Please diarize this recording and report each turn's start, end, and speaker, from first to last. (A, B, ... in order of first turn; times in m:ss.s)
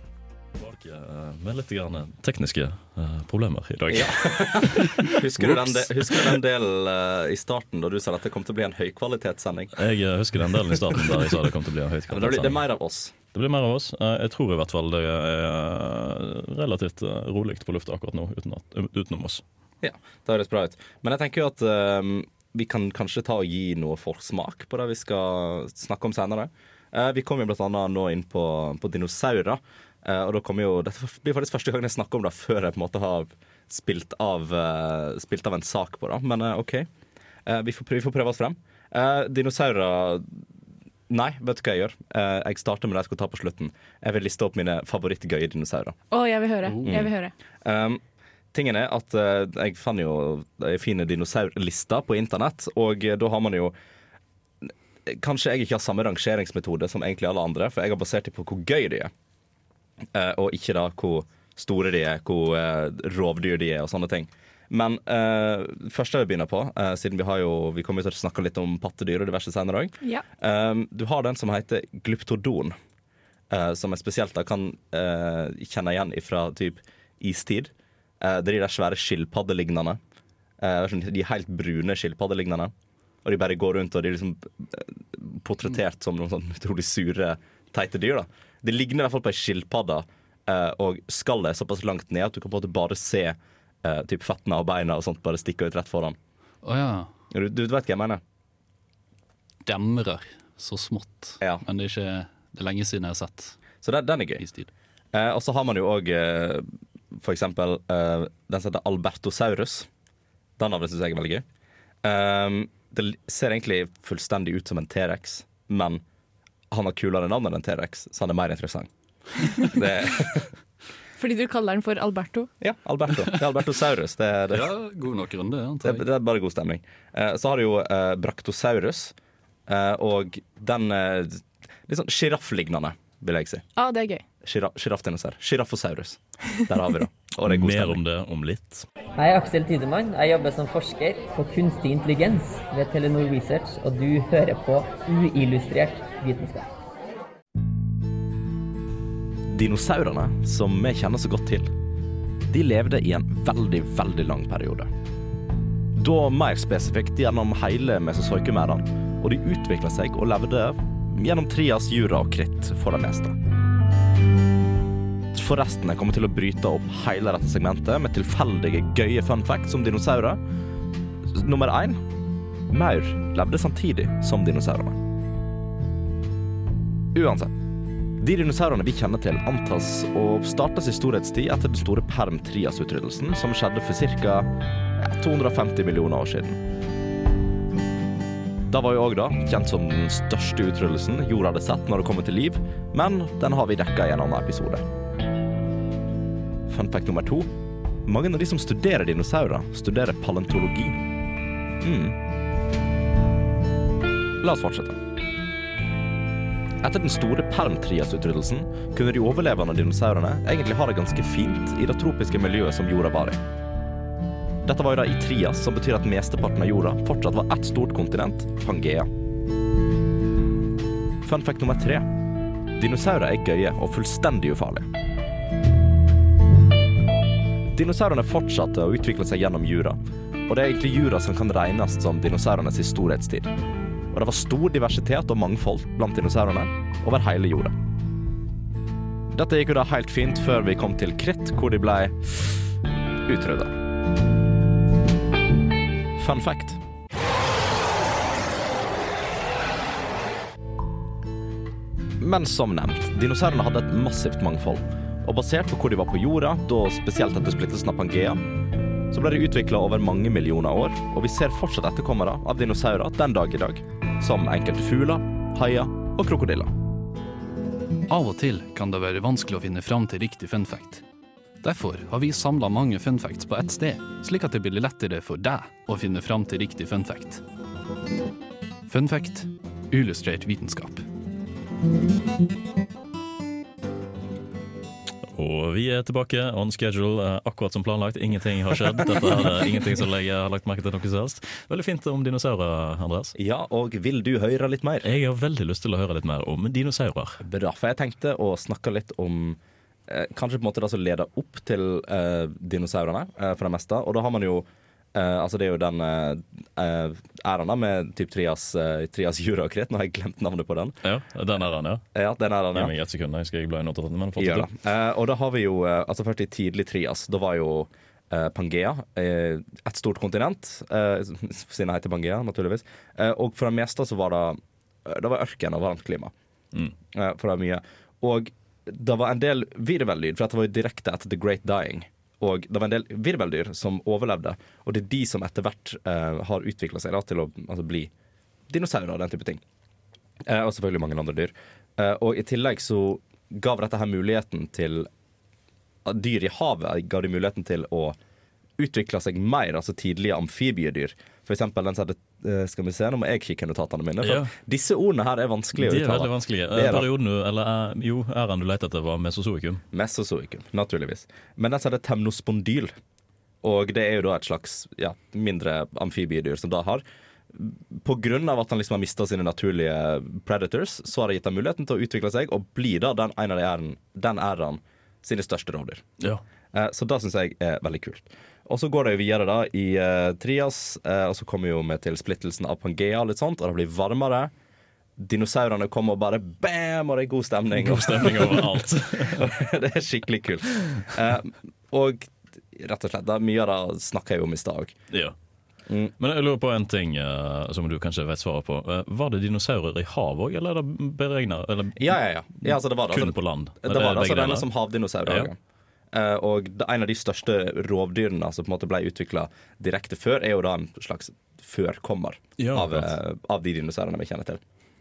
0:00.6-0:06.2 A
0:03.9-0:09.8 B
0:09.8-0:12.6 A
0:10.7-0:11.3 B
0:12.1-0:13.1 B
0:13.3-0:19.4 A
0:19.8-0:36.9 B
0:37.5-0:40.4 B
0:41.1-0:46.0 B
0:46.1-0:47.3 C
0:46.6-0:47.0 D
0:46.8-0:48.0 B
0:48.5-0:53.7 B
0:54.6-0:59.1 B
1:00.1-1:12.8 B
1:13.5-1:20.0 B
1:20.6-1:22.7 B
1:23.2-1:36.2 B
1:36.6-1:37.1 D
1:37.3-1:38.2 B
1:39.6-1:43.6 D
1:43.8-1:44.4 B
1:44.4-1:44.7 D
1:45.1-1:49.9 B
1:50.6-1:51.4 B
1:52.0-1:56.0 B
1:56.7-1:58.9 B
1:59.6-2:00.5 B
2:01.2-2:02.5 C
2:02.6-2:04.7 B
2:04.5-2:06.0 D
2:05.8-2:09.1 B
2:09.7-2:13.6 B
2:13.8-2:14.2 C
2:14.4-2:18.0 B
2:17.5-2:18.9 A
2:19.2-2:26.7 E
2:29.5-2:31.7 B
2:32.5-2:34.9 B
2:36.0-2:43.4 B
2:45.3-2:50.4 B
2:51.3-2:52.0 B
2:52.7-2:55.0 B
2:57.1-2:57.6 B
2:58.2-3:06.6 B
3:08.7-3:14.8 B
3:16.7-3:17.5 B
3:18.0-3:21.0 B
3:21.8-3:22.2 B
3:24.4-3:25.0 B
3:26.8-3:33.4 B
3:34.6-3:39.1 B
3:41.2-3:42.1 B
3:42.8-3:44.9 B
3:47.7-3:53.5 B
3:54.1-3:57.8 B
3:59.3-4:02.7 B
4:03.3-4:03.8 B
4:06.2-4:06.8 B
4:12.2-4:18.4 B
4:19.1-4:26.7 B
4:28.1-4:31.0 D
4:31.6-4:37.4 D
4:38.9-4:41.0 D
4:45.3-4:53.4 A
4:53.4-4:55.1 B
4:55.0-4:57.4 A
4:57.4-5:11.0 B
5:11.0-5:12.0 A
5:12.1-5:12.9 B
5:12.7-5:14.7 A
5:14.4-5:26.3 B
5:27.1-5:38.1 B
5:38.7-5:39.6 B
5:40.5-5:45.1 B
5:46.0-5:48.2 B
5:48.8-5:57.1 B
5:54.2-5:54.5 A
5:55.8-5:59.8 A
5:59.9-6:02.9 B
6:03.6-6:16.0 B
6:16.7-6:24.5 B
6:25.2-6:34.9 B
6:27.8-6:29.5 A
6:35.9-6:36.1 B
6:36.2-6:44.7 A
6:42.0-6:45.6 B
6:45.2-6:45.5 A
6:46.1-6:54.6 B
6:52.6-6:53.1 A